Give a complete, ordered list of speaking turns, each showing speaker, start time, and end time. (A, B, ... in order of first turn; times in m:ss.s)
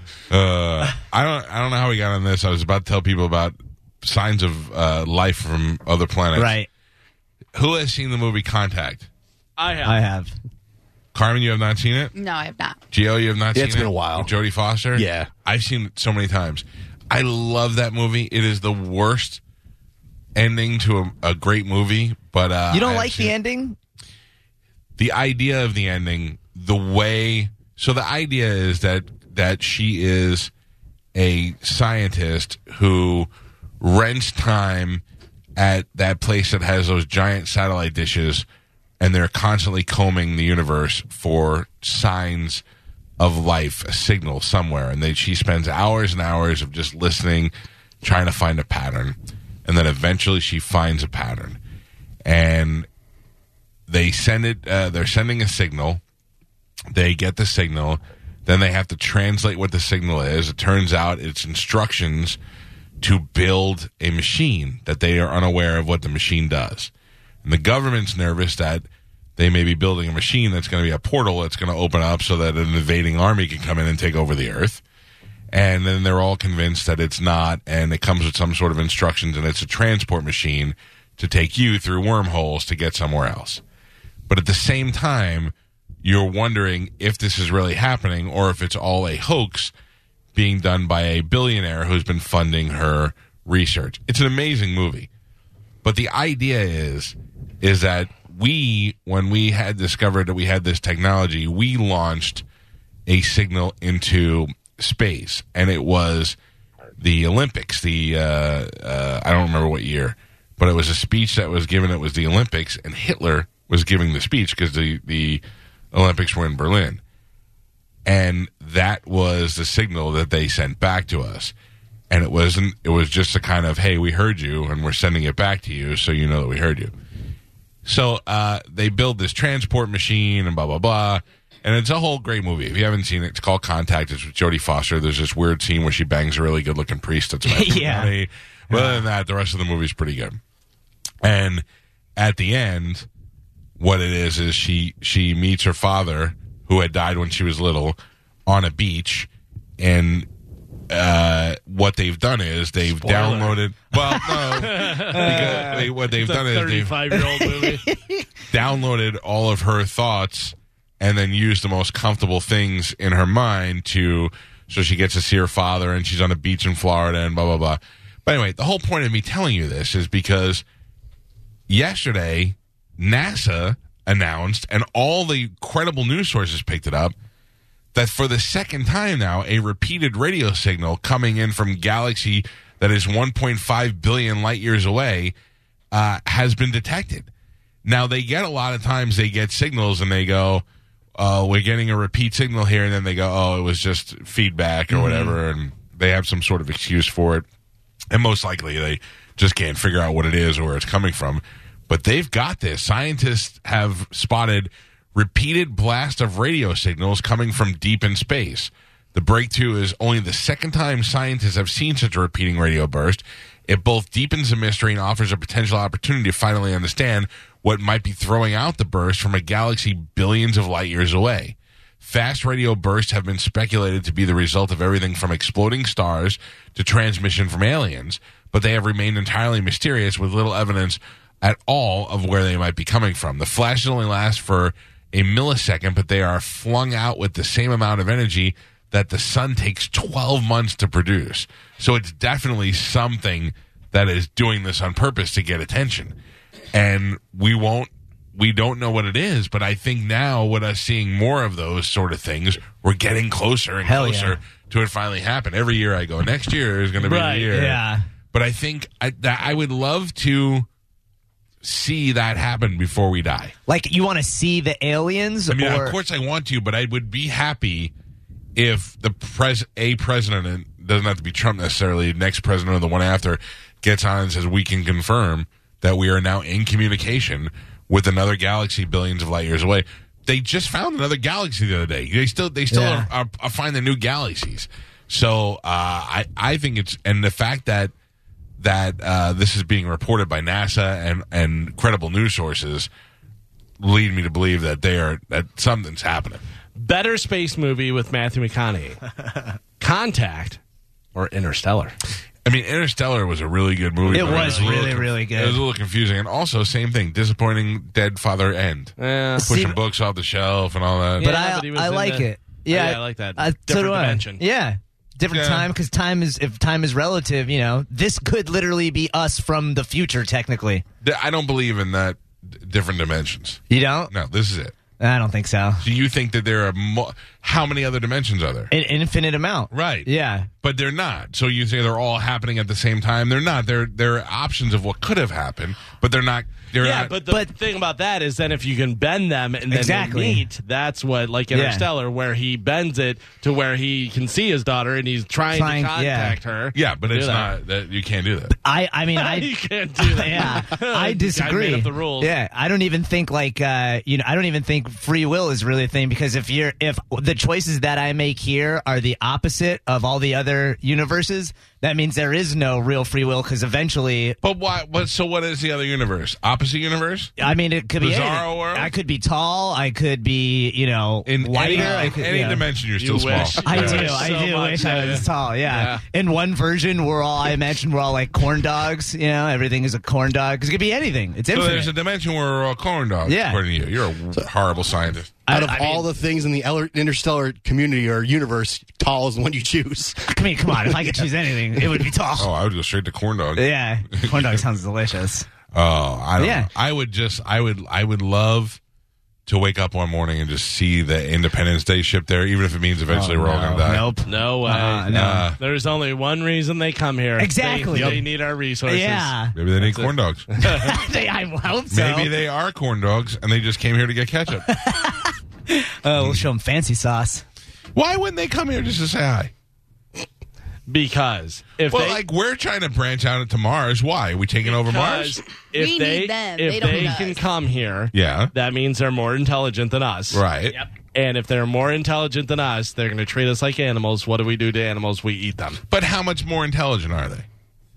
0:00.3-0:06.6 A
0:06.4-0:06.7 B
0:07.5-0:09.1 A
0:09.6-0:10.0 C
0:09.8-0:10.3 B
0:11.1-0:12.1 A
0:12.2-0:12.8 D
0:12.9-0:19.4 A
0:13.5-0:14.3 E
0:15.0-0:15.3 E
0:20.4-0:23.4 A
0:22.7-0:23.8 B
0:25.0-0:30.5 A
0:31.2-0:33.3 A
0:33.8-0:35.0 A
0:35.6-0:38.5 A
0:39.0-0:42.6 A
0:43.2-0:51.6 A
0:52.2-0:52.9 A
0:53.9-0:56.0 A
0:56.9-1:02.4 A
1:03.0-1:06.9 A
1:07.4-1:14.8 A
1:15.5-1:23.6 A
1:24.3-1:29.7 A
1:30.4-1:35.1 A
1:35.8-1:42.4 A
1:43.1-1:46.4 A
1:47.0-1:57.0 A
1:58.1-2:01.5 A
2:02.1-2:06.9 A
2:07.8-2:20.4 A
2:17.5-2:18.1 B
2:18.7-2:19.0 B
2:21.2-2:21.6 A
2:22.2-2:23.1 A
2:23.8-2:30.3 A
2:30.9-2:37.0 A
2:32.8-2:33.6 C
2:34.2-2:37.8 C
2:34.8-2:35.9 B
2:37.1-2:38.3 B
2:38.5-2:50.6 A
2:51.7-2:57.1 A
2:57.9-3:05.4 A
3:05.9-3:07.3 A
3:07.8-3:10.6 A
3:11.2-3:17.5 A
3:15.0-3:15.3 B
3:18.1-4:06.2 A
4:06.7-4:17.8 A
4:13.8-4:14.4 B
4:17.0-4:17.5 C
4:17.5-4:18.0 B
4:18.3-4:20.7 A
4:21.6-4:23.5 A
4:23.7-4:26.0 B
4:25.5-4:27.9 A
4:28.6-4:47.9 A
4:42.7-4:43.1 B
4:48.6-4:52.9 A
4:53.8-4:56.4 A
4:56.8-4:59.0 C
4:59.8-5:00.6 C
5:01.2-5:02.0 C
5:02.4-5:11.3 A
5:04.0-5:05.0 C
5:04.1-5:05.6 B
5:09.0-5:09.5 C
5:09.4-5:09.8 B
5:11.2-5:14.4 C
5:11.2-5:20.8 B
5:15.3-5:15.7 A
5:21.0-5:24.8 A
5:23.7-5:24.1 B
5:25.0-5:25.9 B
5:25.8-5:28.7 A
5:28.7-5:30.5 B
5:29.7-5:30.1 A
5:30.6-5:37.1 A
5:36.8-5:47.5 C
5:37.2-5:37.5 B
5:39.7-5:40.4 B
5:41.5-5:41.9 B
5:45.5-5:46.4 B
5:46.7-5:48.5 A
5:48.5-6:04.4 B
5:49.1-5:52.3 C
6:04.4-6:07.3 A
6:07.4-6:12.6 B
6:08.0-6:08.9 A
6:11.3-6:14.4 A
6:11.6-6:12.2 C
6:13.0-6:16.0 C
6:13.3-6:21.9 B
6:21.5-6:25.4 A
6:23.3-6:23.6 B
6:25.5-6:26.1 B
6:25.5-6:31.3 E
6:30.3-6:32.5 B
6:32.3-6:34.6 A
6:33.6-6:35.5 B
6:35.7-6:38.8 A
6:36.4-6:36.7 B
6:39.5-6:44.1 A
6:43.1-6:45.5 B
6:44.2-6:51.0 C
6:45.1-6:45.6 A
6:47.4-6:48.2 B
6:47.9-6:48.2 E
6:48.9-6:49.5 B
6:49.6-6:50.5 A
6:50.6-6:52.3 B
6:51.9-6:54.7 A
6:54.7-6:57.4 B
6:56.2-6:56.5 A
6:57.9-6:59.5 A
7:00.9-7:02.2 C
7:01.9-7:05.4 A
7:04.6-7:10.4 C
7:05.7-7:07.4 D
7:08.1-7:08.5 A
7:10.3-7:10.8 A
7:11.1-7:15.8 C
7:15.9-7:17.5 A